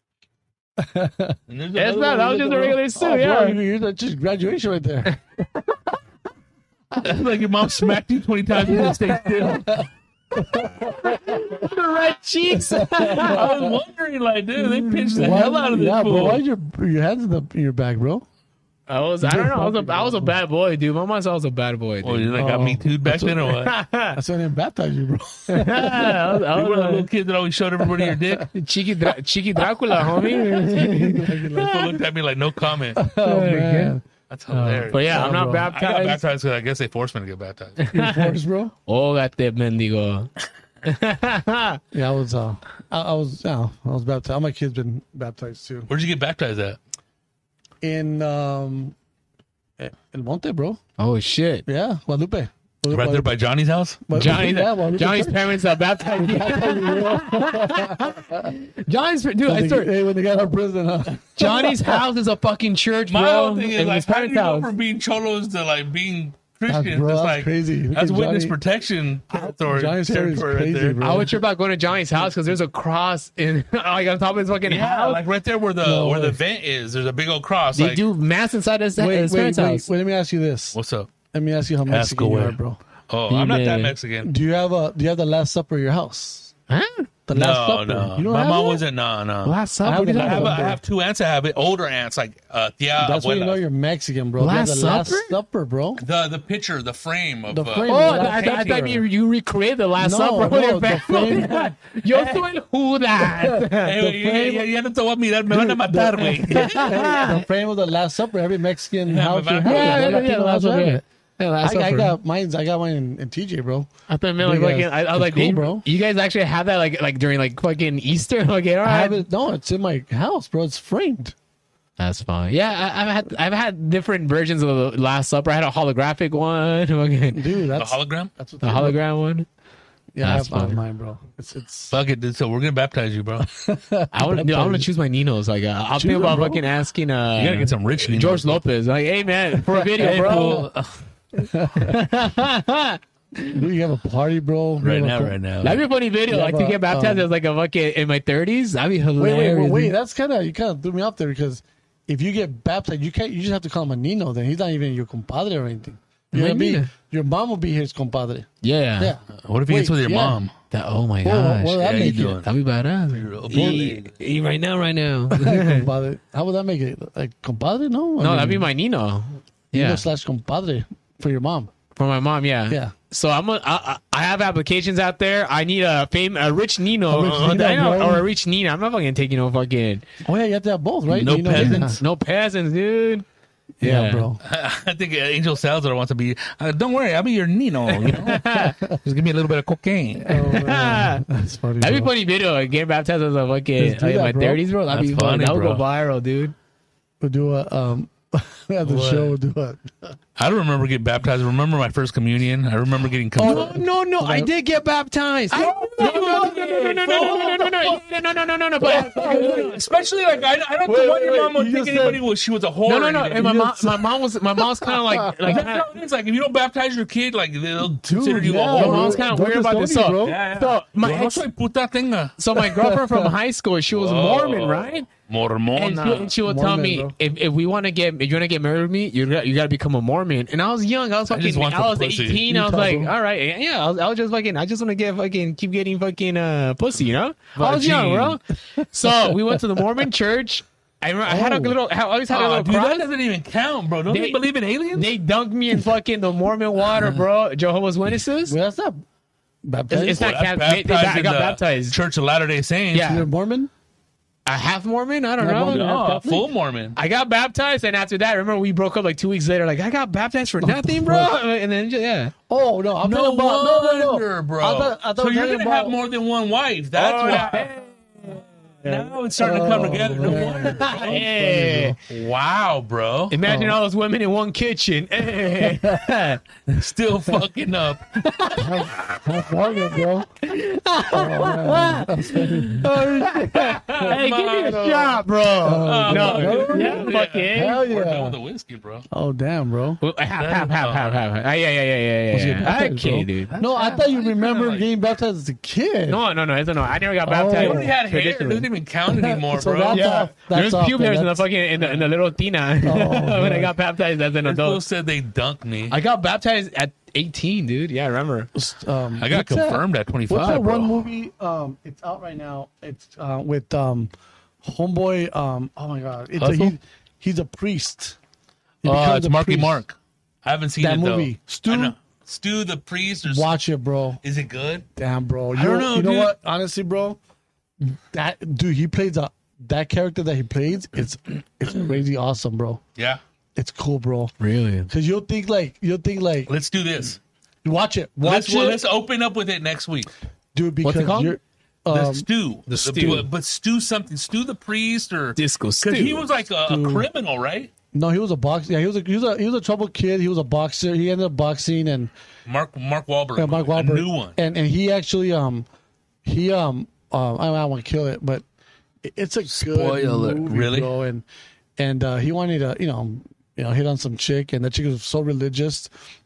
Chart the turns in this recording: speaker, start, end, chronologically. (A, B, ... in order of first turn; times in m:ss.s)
0:00.8-0:01.4 A
0:01.5-0:02.8 B
0:01.7-0:03.6 C
0:02.9-0:05.1 A
0:07.0-0:09.8 B
0:08.6-0:11.7 A
0:10.8-0:13.4 C
0:12.5-0:13.8 A
0:13.1-0:16.4 B
0:14.6-0:15.4 C
0:15.1-0:18.2 A
0:18.9-0:22.3 C
0:19.2-0:20.3 A
0:22.0-0:23.7 B
0:22.3-0:23.5 A
0:23.6-0:24.2 C
0:24.1-0:26.3 A
0:25.5-0:27.1 C
0:26.5-0:28.5 B
0:28.0-0:28.4 A
0:28.5-0:31.7 C
0:30.0-0:32.0 A
0:31.6-0:33.0 B
0:33.0-0:34.0 A
0:33.2-0:33.9 C
0:34.3-0:37.8 B
0:34.5-0:36.2 C
0:35.1-0:35.7 A
0:37.8-0:38.3 C
0:37.9-0:38.7 A
0:38.8-0:40.3 C
0:40.8-0:41.8 C
0:41.9-0:45.9 A
0:45.9-0:46.8 B
0:47.8-0:48.9 A
0:49.8-0:50.8 A
0:51.0-0:51.6 C
0:51.6-0:53.3 A
0:52.9-0:54.0 B
0:54.0-0:58.5 A
0:54.1-0:59.9 C
0:59.5-1:02.0 A
1:01.4-1:04.7 C
1:03.1-1:11.0 B
1:06.7-1:08.6 A
1:09.3-1:11.3 A
1:11.0-1:15.2 C
1:14.6-1:18.0 B
1:15.8-1:16.4 A
1:17.7-1:19.8 C
1:19.0-1:20.8 A
1:20.7-1:21.1 B
1:21.3-1:22.8 A
1:21.9-1:22.6 B
1:23.1-1:24.3 B
1:23.3-1:23.9 C
1:24.2-1:26.5 A
1:26.7-1:27.1 C
1:27.3-1:28.8 A
1:27.3-1:29.6 B
1:29.4-1:30.7 C
1:29.8-1:30.8 A
1:30.1-1:33.6 B
1:33.0-1:36.0 A
1:34.4-1:35.3 C
1:36.0-1:38.6 B
1:37.5-1:39.0 A
1:37.8-1:43.9 C
1:40.0-1:42.4 A
1:43.2-1:44.7 A
1:43.7-1:47.0 B
1:45.5-1:51.0 A
1:46.5-1:47.4 C
1:49.1-1:50.3 B
1:49.6-1:52.2 C
1:51.6-1:55.8 A
1:54.1-1:59.2 C
1:58.8-2:01.3 A
2:02.0-2:07.5 C
2:07.3-2:09.0 A
2:07.8-2:08.3 B
2:08.6-2:09.5 C
2:10.1-2:11.9 A
2:10.2-2:10.8 C
2:11.9-2:13.5 B
2:13.4-2:14.9 A
2:14.1-2:20.7 C
2:16.0-2:16.6 A
2:17.4-2:18.6 B
2:19.9-2:20.9 B
2:20.0-2:20.7 A
2:21.4-2:22.1 A
2:21.7-2:23.6 C
2:23.5-2:25.4 A
2:24.8-2:25.8 B
2:25.6-2:29.9 C
2:26.3-2:27.3 A
2:29.2-2:40.4 A
2:36.3-2:36.9 C
2:38.6-2:39.1 C
2:39.4-2:40.5 B
2:40.7-2:45.9 C
2:41.2-2:42.4 A
2:41.8-2:42.5 B
2:43.1-2:44.2 B
2:43.5-2:44.0 A
2:45.3-2:48.6 A
2:48.2-2:50.0 C
2:49.7-2:51.7 A
2:52.0-3:00.0 C
2:57.1-2:58.2 A
3:00.2-3:02.0 A
3:01.1-3:02.0 B
3:01.5-3:03.2 C
3:03.8-3:04.4 A
3:03.8-3:04.3 C
3:04.4-3:10.5 B
3:08.0-3:08.7 C
3:10.3-3:12.1 A
3:10.3-3:11.2 C
3:11.8-3:16.5 C
3:13.8-3:14.6 A
3:14.9-3:15.8 B
3:17.2-3:20.1 A
3:18.8-3:19.3 B
3:20.4-3:23.7 B
3:23.4-3:24.5 A
3:23.4-3:29.7 C
3:25.5-3:28.0 B
3:28.8-3:33.6 B
3:28.8-3:29.7 A
3:30.8-3:32.2 A
3:32.8-3:35.8 C
3:33.3-3:35.6 A
3:35.5-3:39.3 B
3:37.8-3:40.4 A
3:38.7-3:41.4 C
3:40.2-3:42.4 B
3:42.4-3:45.1 C
3:42.6-3:43.3 A
3:43.9-3:46.3 B
3:45.7-4:03.0 C
3:46.4-3:47.1 A
3:51.3-3:52.4 B
3:52.4-3:53.1 A
3:57.6-3:58.4 B
3:59.2-3:59.6 A
4:01.2-4:01.8 A
4:02.3-4:05.1 B
4:04.1-4:04.4 C
4:04.9-4:08.6 C
4:08.4-4:09.0 A
4:09.6-4:10.3 A
4:09.9-4:12.0 C
4:10.1-4:13.2 B
4:12.9-4:13.2 C
4:12.9-4:13.7 A
4:14.4-4:15.9 C
4:15.4-4:16.5 A
4:15.6-4:17.0 B
4:16.9-4:22.3 C
4:20.6-4:21.4 A
4:22.5-4:26.0 A
4:23.0-4:31.2 B
4:26.9-4:27.7 C
4:28.9-4:32.0 A
4:30.3-4:32.0 C
4:32.1-4:33.3 B
4:33.3-4:36.4 C
4:33.4-4:33.8 A
4:35.6-4:36.0 A
4:36.7-4:38.0 B
4:38.2-4:38.8 C
4:38.6-4:40.3 A
4:40.4-4:47.8 C
4:41.1-4:44.2 A
4:43.9-4:45.2 B
4:45.6-4:48.4 A
4:45.8-4:49.0 B
4:49.1-4:50.0 A
4:50.0-4:54.1 C
4:50.4-4:51.1 B
4:52.3-4:56.2 A
4:54.0-4:54.8 B
4:56.1-4:58.7 C
4:57.2-4:57.9 A
4:57.5-5:00.1 B
4:59.1-5:01.4 A
4:59.9-5:04.8 C
5:02.8-5:03.7 A
5:04.4-5:06.0 B
5:05.9-5:08.5 C
5:08.5-5:14.1 A
5:09.2-5:10.9 B
5:14.6-5:18.2 A
5:16.4-5:16.7 B
5:18.8-5:19.8 A
5:18.8-5:23.5 B
5:20.8-5:21.9 A
5:23.2-5:24.2 A
5:24.2-5:24.8 B
5:25.0-5:27.2 A
5:25.5-5:26.3 B
5:27.8-5:32.8 A
5:33.6-5:34.3 A
5:34.4-5:34.9 C
5:34.9-5:36.5 A
5:36.5-5:37.2 B
5:37.6-5:38.8 A
5:38.2-5:40.1 B
5:40.5-5:42.2 A
5:40.8-5:41.4 C
5:41.9-5:47.7 B
5:42.7-5:43.2 C
5:42.8-5:43.2 A
5:45.4-5:46.2 C
5:46.6-5:47.1 A
5:47.9-5:52.1 A
5:52.4-5:54.4 B
5:53.4-5:55.6 A
5:56.2-5:58.4 A
5:59.0-6:01.2 A
5:59.5-6:00.9 B
6:01.8-6:05.9 A